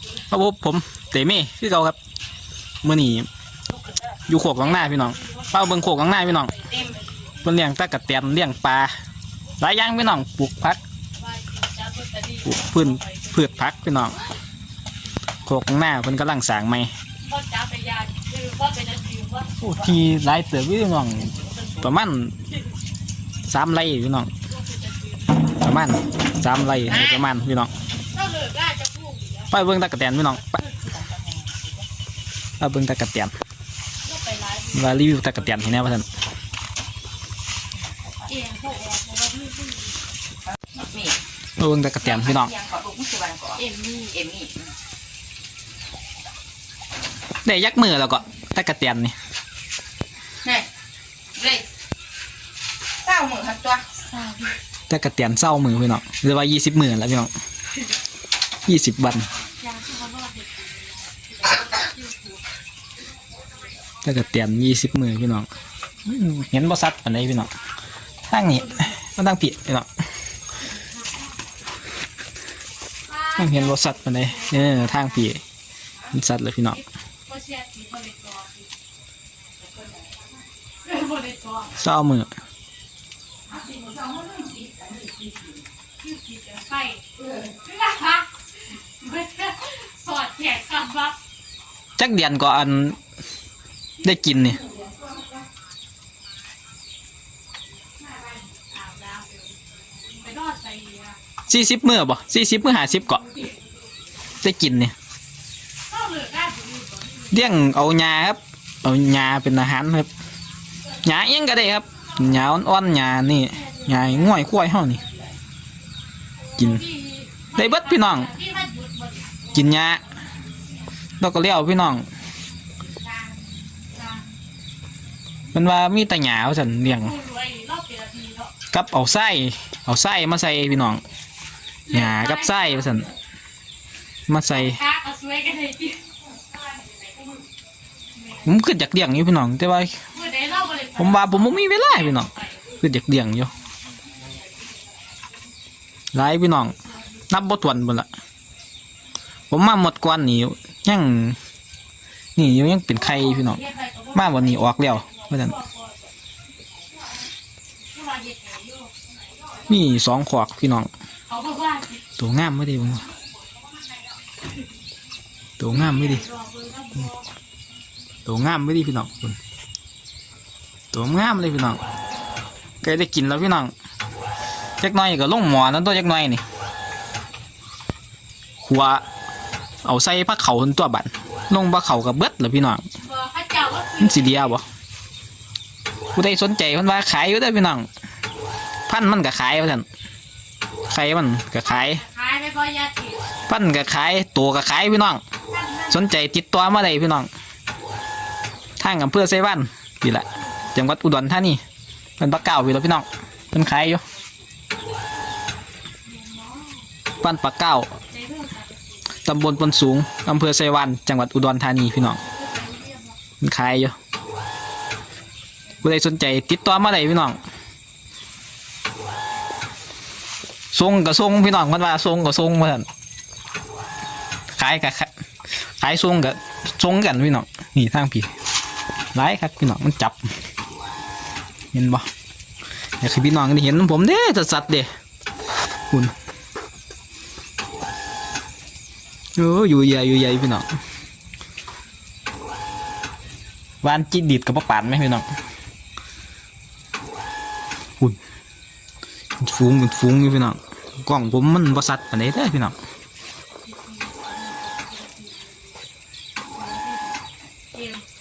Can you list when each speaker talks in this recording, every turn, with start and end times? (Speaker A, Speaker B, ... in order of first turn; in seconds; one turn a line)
Speaker A: 0.3-2.0
Speaker A: 2.8-3.3
Speaker A: 4.3-6.5
Speaker B: 4.6-7.0
Speaker A: 7.4-8.9
Speaker A: 9.6-10.8
Speaker B: 11.2-13.9
Speaker A: 12.4-14.2
Speaker A: 15.4-16.9
Speaker B: 17.2-19.5
Speaker A: 19.6-22.4
Speaker A: 23.5-24.3
Speaker B: 24.5-25.5
Speaker A: 25.6-27.7
Speaker B: 28.1-29.5
Speaker A: 29.5-30.6
Speaker C: 30.8-31.9
Speaker A: 32.6-33.3
Speaker B: 34.0-35.8
Speaker A: 34.7-36.1
Speaker C: 37.8-38.4
Speaker B: 38.3-40.0
Speaker C: 40.5-41.2
Speaker A: 41.6-42.5
Speaker C: 42.0-44.7
Speaker B: 43.6-44.1
Speaker A: 47.4-49.1
Speaker C: 51.3-51.6
Speaker C: 53.0-53.8
Speaker B: 54.0-54.5
Speaker A: 54.9-57.3
Speaker A: 58.6-59.3
Speaker B: 59.6-62.4
Speaker A: 64.0-65.5
Speaker A: 66.0-67.5
Speaker A: 68.3-69.9
Speaker B: 73.1-75.3
Speaker A: 73.3-75.4
Speaker A: 76.1-76.8
Speaker B: 76.7-78.7
Speaker B: 80.8-81.7
Speaker A: 81.8-82.3
Speaker C: 83.6-85.5
Speaker B: 86.0-87.0
Speaker B: 87.6-88.3
Speaker B: 89.0-91.2
Speaker A: 92.0-93.0
Speaker A: 94.0-94.6
Speaker B: 98.7-101.2
Speaker A: 101.5-103.2
Speaker A: 104.4-104.9
Speaker B: 105.9-107.4
Speaker A: 107.3-110.1
Speaker A: 111.0-115.0
Speaker B: 113.5-114.5
Speaker B: 116.6-119.5
Speaker A: 116.6-116.8
Speaker A: 117.5-118.3
Speaker A: 119.5-120.0
Speaker A: 121.2-122.1
Speaker B: 123.9-124.2
Speaker A: 125.5-127.2
Speaker B: 126.9-128.5
Speaker A: 128.7-131.0
Speaker B: 131.9-133.1
Speaker A: 131.9-133.1
Speaker A: 134.3-134.8
Speaker B: 134.5-136.0
Speaker B: 138.2-138.5
Speaker A: 138.4-139.9
Speaker B: 140.1-142.6
Speaker A: 141.0-143.5
Speaker A: 146.1-146.8
Speaker A: 147.3-148.1
Speaker A: 149.5-151.4
Speaker A: 152.3-153.6
Speaker B: 152.9-156.0
Speaker A: 154.1-155.6
Speaker B: 157.9-158.9
Speaker A: 159.7-160.9
Speaker B: 161.3-162.0
Speaker A: 162.2-163.0
Speaker A: 165.6-166.2
Speaker B: 165.7-167.2
Speaker A: 168.2-169.4
Speaker A: 170.9-171.8
Speaker A: 172.8-173.7
Speaker A: 174.8-176.4
Speaker A: 178.6-179.0
Speaker A: 179.8-182.8
Speaker B: 183.0-184.5
Speaker A: 184.0-184.6
Speaker A: 186.2-187.9
Speaker A: 188.9-189.8
Speaker A: 190.9-192.0
Speaker B: 191.6-193.3
Speaker A: 193.5-195.2
Speaker B: 195.6-195.9
Speaker A: 195.9-197.3
Speaker A: 198.8-201.6
Speaker A: 202.2-204.0
Speaker B: 206.1-206.8
Speaker A: 207.2-207.9
Speaker B: 208.1-209.0
Speaker A: 209.2-212.2
Speaker B: 212.2-213.1
Speaker A: 213.4-213.9
Speaker A: 215.8-217.4
Speaker A: 220.7-222.8
Speaker A: 224.6-225.1
Speaker A: 225.8-228.3
Speaker A: 229.1-230.2
Speaker A: 231.7-232.0
Speaker A: 233.0-234.9
Speaker A: 239.4-240.7
Speaker A: 243.8-245.2
Speaker A: 249.4-252.8
Speaker B: 253.7-255.6
Speaker B: 256.5-257.2
Speaker B: 257.7-258.0